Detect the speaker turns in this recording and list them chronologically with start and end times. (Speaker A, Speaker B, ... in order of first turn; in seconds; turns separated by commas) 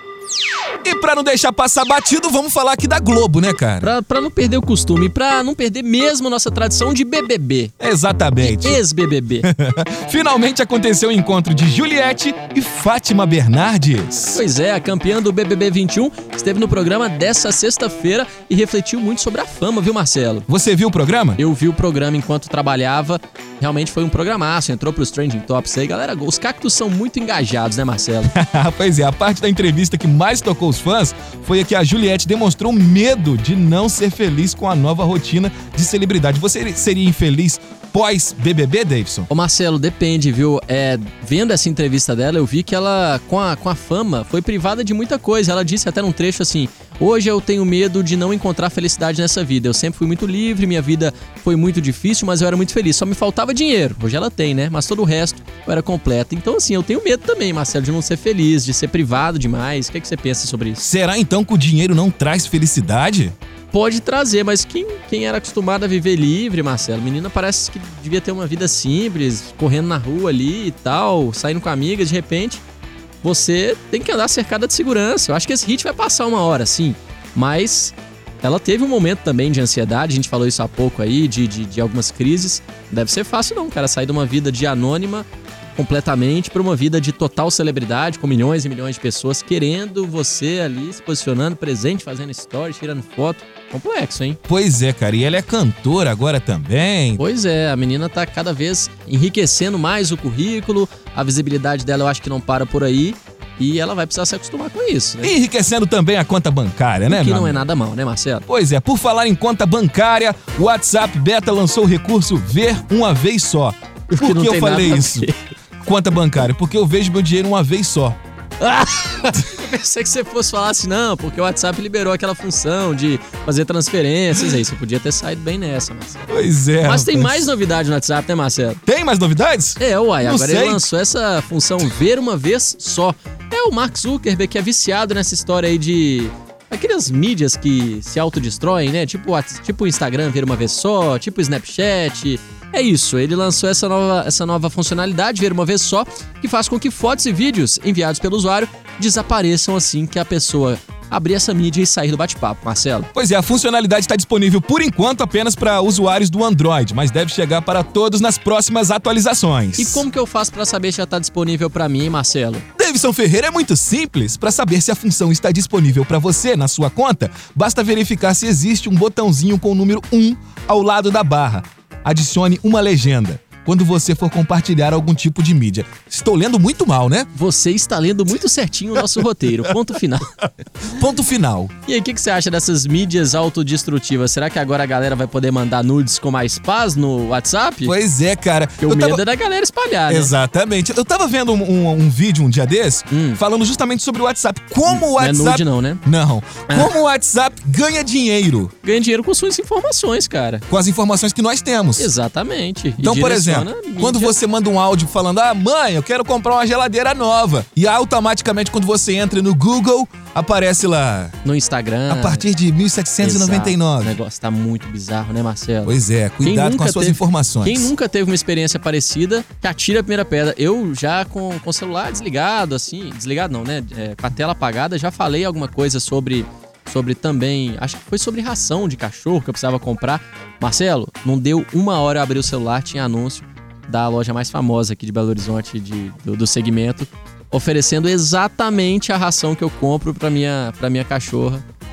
Speaker A: 0.8-3.9, Speaker B: 3.8-7.7, Speaker A: 7.8-8.8, Speaker B: 8.4-9.5, Speaker A: 9.5-14.4, Speaker B: 14.3-20.5, Speaker A: 20.5-21.4, Speaker B: 21.4-28.3, Speaker A: 28.3-39.3, Speaker B: 39.3-60.8, Speaker A: 60.8-63.4, Speaker B: 63.7-72.6, Speaker B: 73.2-85.2, Speaker B: 85.8-94.4, Speaker A: 94.5-97.2, Speaker B: 97.2-105.3, Speaker A: 105.2-107.6, Speaker B: 107.1-108.5, Speaker A: 108.5-115.3, Speaker B: 114.1-115.3, Speaker A: 115.8-118.2, Speaker B: 118.6-128.8, Speaker A: 126.3-127.5, Speaker A: 128.9-130.8, Speaker B: 129.8-153.1, Speaker A: 153.1-160.0, Speaker B: 159.8-162.6, Speaker A: 162.8-177.3, Speaker B: 177.3-180.3, Speaker A: 180.8-181.7, Speaker B: 181.8-187.9, Speaker A: 187.8-189.2, Speaker B: 188.8-190.3, Speaker A: 190.1-198.7, Speaker B: 193.1-193.4, Speaker B: 194.9-196.0, Speaker B: 196.7-196.9, Speaker B: 198.8-200.6, Speaker A: 200.7-202.1, Speaker B: 202.0-204.4, Speaker A: 203.0-211.4, Speaker B: 211.4-212.5, Speaker A: 212.1-214.2, Speaker B: 213.2-241.6, Speaker A: 215.8-217.9